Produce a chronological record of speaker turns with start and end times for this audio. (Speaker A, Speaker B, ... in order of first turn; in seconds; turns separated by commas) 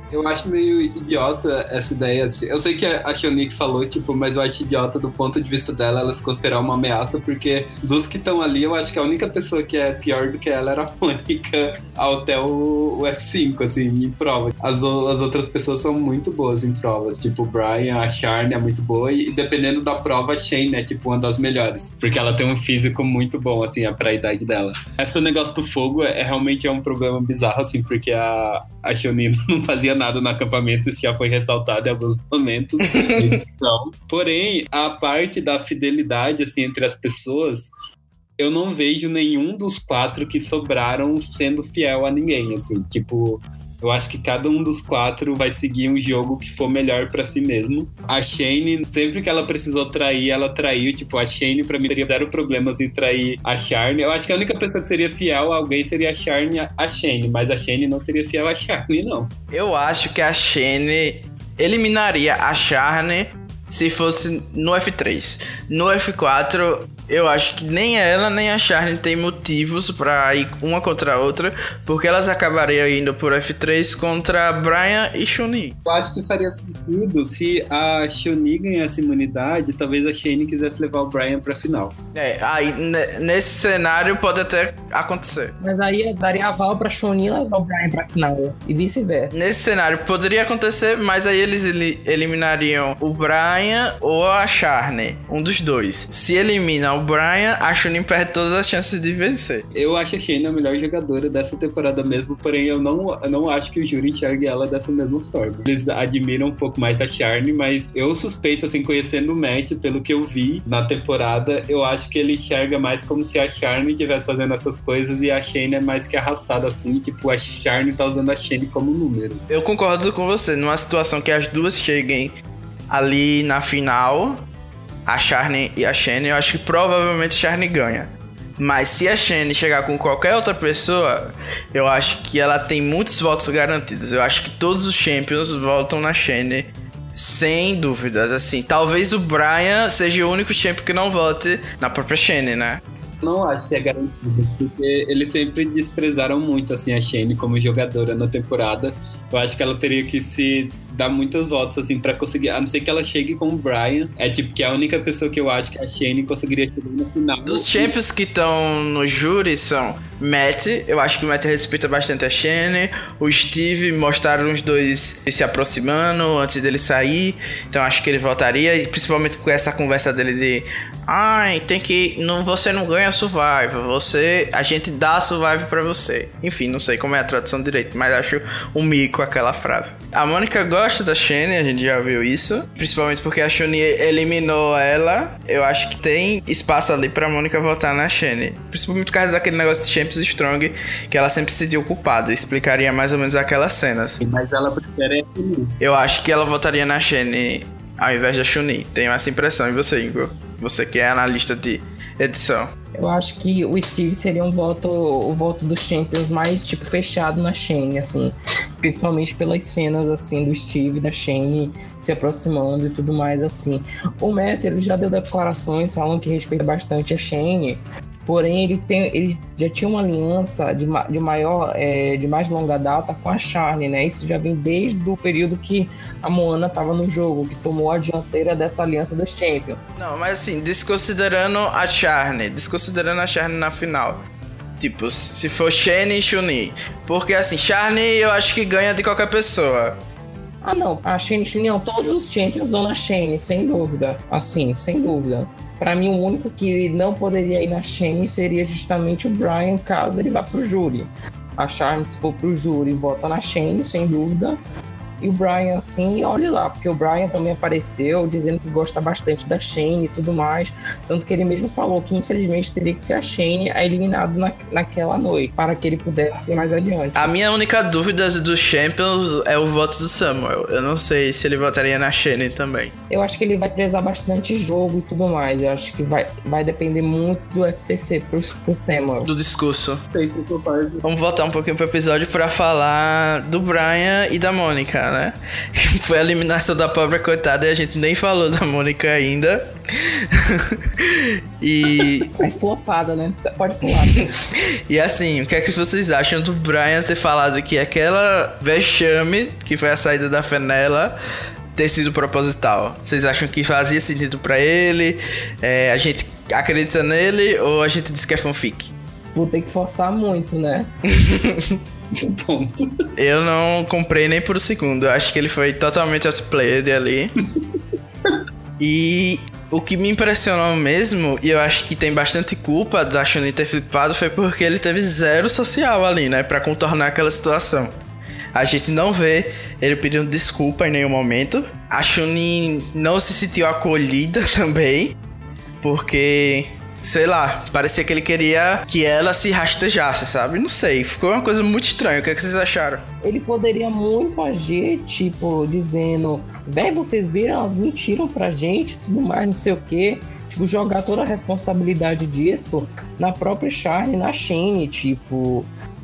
Speaker A: 0.1-37.7, Speaker A: 38.4-59.3, Speaker B: 59.5-75.8, Speaker A: 75.8-81.9, Speaker B: 82.2-85.5, Speaker C: 85.6-89.3, Speaker B: 89.3-99.6, Speaker A: 99.7-119.4, Speaker B: 119.5-122.3, Speaker B: 122.9-124.4, Speaker B: 125.1-142.8, Speaker A: 143.2-157.9, Speaker B: 157.4-194.2, Speaker A: 194.2-195.8, Speaker B: 195.8-202.7, Speaker C: 202.9-229.9, Speaker B: 230.0-234.2, Speaker B: 234.8-240.0, Speaker C: 240.6-254.6, Speaker C: 255.2-267.3, Speaker B: 267.1-272.9, Speaker C: 273.1-279.3, Speaker B: 279.2-280.0, Speaker A: 280.1-281.0, Speaker B: 281.0-289.7, Speaker B: 290.4-292.4, Speaker C: 292.4-294.3, Speaker B: 294.9-301.1, Speaker B: 301.8-308.9, Speaker C: 309.3-310.9, Speaker B: 311.1-311.8, Speaker A: 312.1-313.0, Speaker B: 313.2-317.3, Speaker B: 318.8-327.9, Speaker B: 328.6-335.1, Speaker B: 335.8-343.0, Speaker C: 343.2-355.7